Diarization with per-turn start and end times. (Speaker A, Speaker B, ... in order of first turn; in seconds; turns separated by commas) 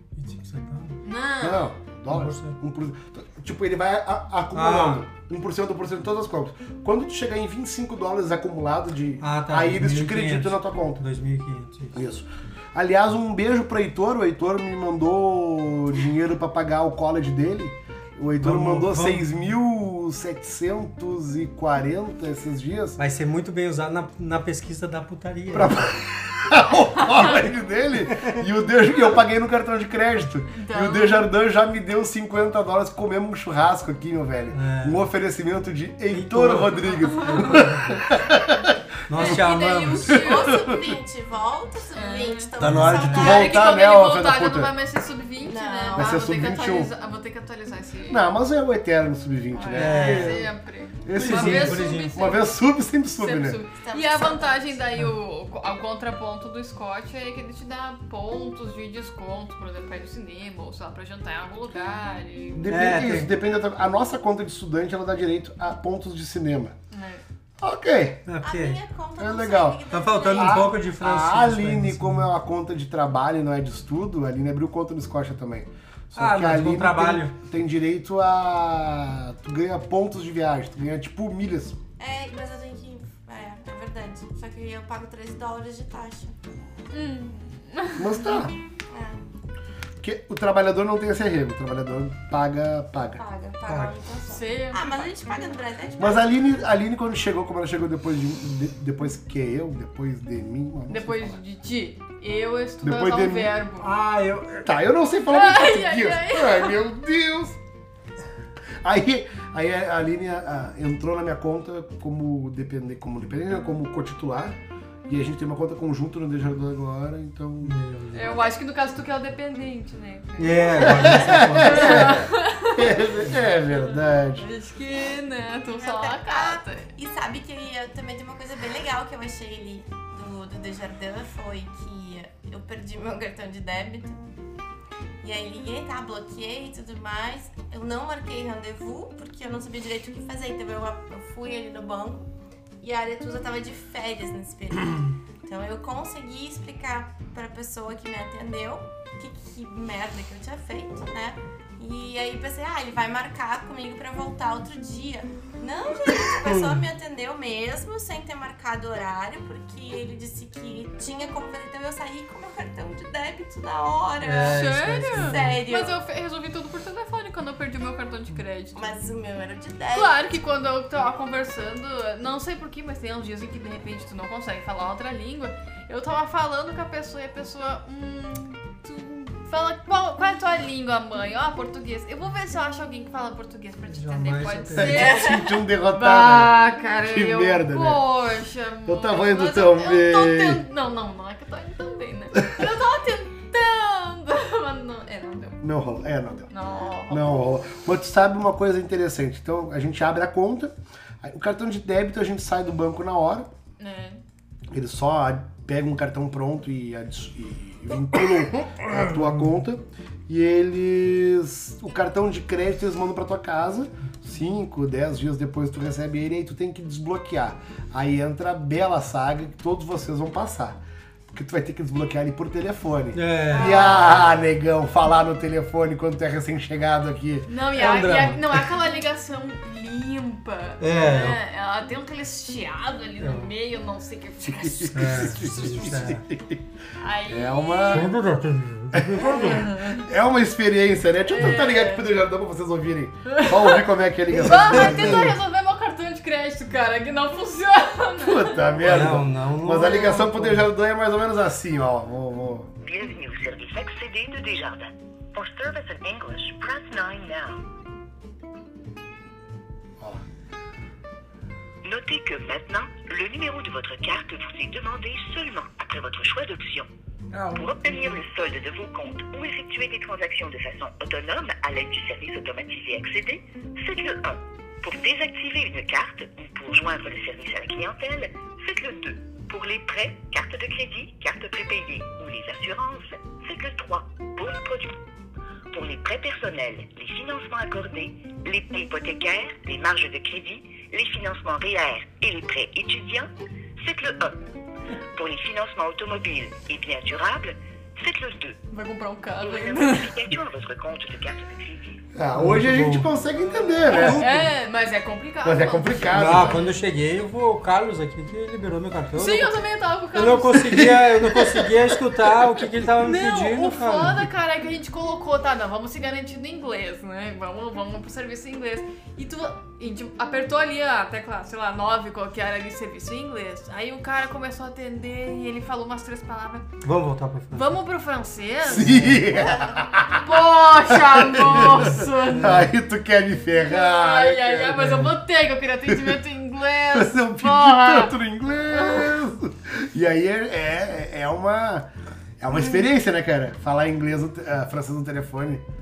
Speaker A: 0.1-1.0, Speaker B: 1.0-1.7, Speaker C: 1.4-11.0, Speaker A: 2.1-2.6, Speaker A: 4.5-5.1, Speaker A: 9.2-12.0, Speaker C: 11.9-23.0, Speaker A: 18.4-19.4, Speaker A: 23.0-25.9, Speaker C: 25.5-39.4, Speaker B: 30.5-31.3, Speaker A: 34.5-35.0, Speaker A: 36.1-38.1, Speaker B: 37.0-37.6, Speaker A: 39.1-40.2, Speaker B: 39.1-40.7, Speaker C: 40.1-40.9, Speaker D: 40.1-43.6, Speaker B: 41.9-42.5, Speaker A: 42.6-43.4, Speaker C: 42.6-44.7, Speaker B: 43.1-48.3, Speaker D: 45.4-46.2, Speaker C: 46.0-46.9, Speaker C: 48.1-50.5, Speaker B: 49.5-52.5, Speaker A: 49.7-50.5, Speaker C: 51.0-53.6, Speaker A: 51.1-52.1, Speaker B: 53.2-62.8, Speaker D: 53.8-54.9, Speaker C: 62.5-66.8, Speaker A: 62.7-63.3, Speaker B: 66.9-67.2, Speaker C: 67.6-68.3, Speaker A: 68.3-68.8, Speaker D: 68.4-70.8, Speaker C: 69.2-81.8, Speaker A: 69.9-72.3, Speaker A: 76.2-77.3, Speaker D: 82.0-86.3, Speaker B: 86.9-88.5, Speaker C: 88.0-88.5, Speaker D: 88.9-89.3, Speaker C: 90.0-93.2, Speaker D: 93.2-96.3, Speaker A: 93.7-94.0, Speaker B: 94.3-95.3, Speaker C: 96.0-101.4, Speaker B: 100.9-103.9, Speaker C: 102.8-103.5, Speaker A: 103.8-104.7, Speaker C: 104.6-107.6, Speaker B: 105.3-106.8, Speaker C: 108.8-117.8, Speaker A: 117.6-118.3, Speaker B: 118.1-126.9, Speaker A: 120.4-122.3, Speaker C: 120.8-124.5, Speaker D: 125.7-134.2, Speaker D: 135.2-142.3, Speaker D: 142.8-166.0, Speaker A: 156.5-156.8, Speaker A: 164.2-165.6, Speaker B: 164.4-168.8, Speaker D: 168.7-170.2, Speaker B: 169.9-195.6, Speaker A: 183.9-185.3, Speaker C: 184.8-188.0, Speaker D: 185.0-185.5, Speaker C: 188.9-190.6, Speaker C: 195.6-196.5, Speaker B: 196.5-197.4, Speaker C: 197.1-203.5, Speaker B: 203.8-204.2, Speaker C: 204.7-220.8, Speaker C: 221.3-227.5, Speaker A: 223.1-223.9, Speaker B: 223.5-224.2, Speaker D: 223.8-224.1, Speaker B: 227.5-235.5, Speaker A: 227.8-228.6, Speaker A: 230.8-231.4, Speaker A: 233.2-233.5, Speaker C: 234.4-236.6, Speaker A: 234.9-236.2, Speaker B: 237.0-238.1, Speaker C: 237.3-238.1, Speaker A: 237.9-239.7, Speaker C: 238.9-245.3, Speaker B: 239.4-240.0, Speaker B: 241.2-242.1, Speaker B: 243.3-248.8, Speaker A: 244.4-245.3, Speaker C: 248.2-252.7, Speaker A: 248.8-250.7, Speaker E: 252.8-257.6, Speaker E: 261.8-266.9, Speaker A: 267.3-267.9, Speaker E: 267.5-285.0, Speaker E: 285.7-294.4, Speaker E: 295.1-298.6, Speaker B: 298.7-300.2, Speaker E: 299.4-302.0, Speaker C: 302.1-304.5, Speaker A: 302.3-304.4, Speaker B: 303.9-306.8, Speaker C: 305.4-306.6, Speaker A: 306.1-309.6, Speaker B: 309.2-310.9, Speaker A: 310.1-314.3, Speaker C: 310.7-311.9, Speaker B: 313.0-326.7, Speaker A: 326.8-327.8, Speaker B: 327.5-329.2, Speaker C: 328.7-334.9, Speaker A: 328.7-329.3, Speaker D: 329.3-329.8, Speaker B: 330.1-332.6, Speaker A: 331.4-332.7, Speaker B: 333.6-338.1, Speaker A: 334.8-335.2, Speaker C: 335.9-336.2, Speaker C: 336.9-341.9, Speaker B: 338.7-339.3, Speaker C: 342.4-345.6